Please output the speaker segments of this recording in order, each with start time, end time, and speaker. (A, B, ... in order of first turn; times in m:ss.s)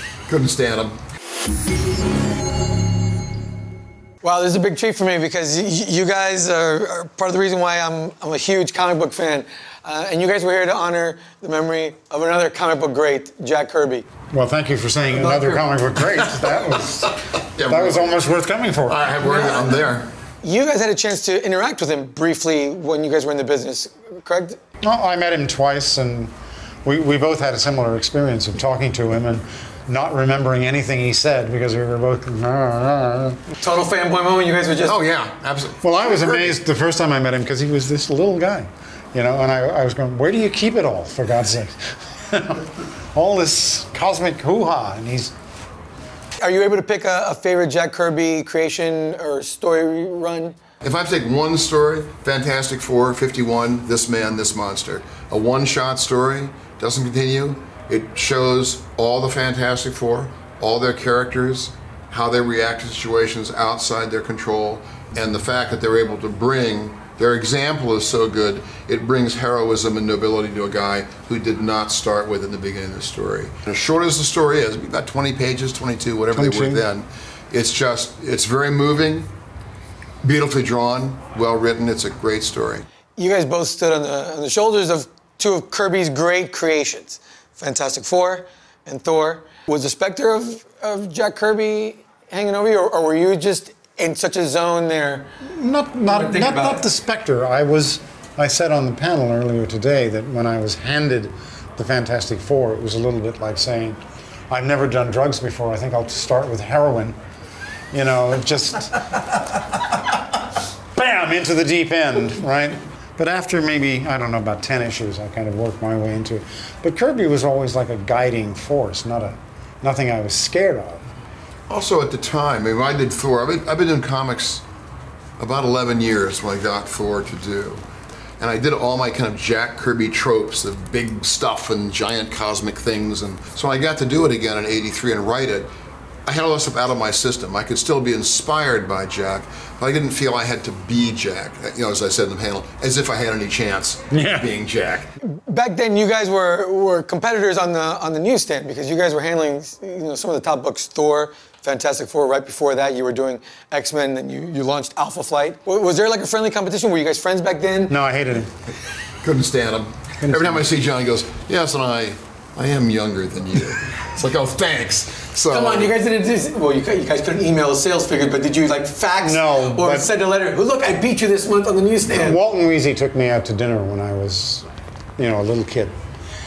0:00.3-0:01.0 A
0:04.2-0:14.1 B
0:14.3-0:19.1 C
0:15.2-0:15.7 B
0:17.5-0:18.2 A
0:18.9-0:20.1 A
0:19.2-0:19.8 B
0:20.4-0:24.6 B
0:24.8-0:26.3 C
0:26.8-0:33.4 C
0:33.6-0:35.0 B
0:34.8-0:36.6 A
0:35.8-0:45.3 C
0:46.4-0:50.6 B
0:50.8-1:19.3 A
1:16.3-1:16.8 C
1:20.2-1:22.8 A
1:23.2-1:35.3 B
1:35.4-1:44.0 C
1:36.0-1:36.8 B
1:44.5-1:47.2 C
1:47.9-1:49.4 C
1:51.0-2:01.0 C
2:01.7-2:04.6 A
2:05.4-2:07.8 A
2:08.4-2:15.7 A
2:16.2-2:25.1 A
2:24.1-2:24.5 C
2:25.2-2:37.9 B
2:37.9-2:38.5 C
2:39.2-2:45.9 A
2:40.2-2:40.6 C
2:45.5-2:52.4 B
2:49.2-2:50.1 C
2:52.1-2:54.6 C
2:55.2-2:55.9 C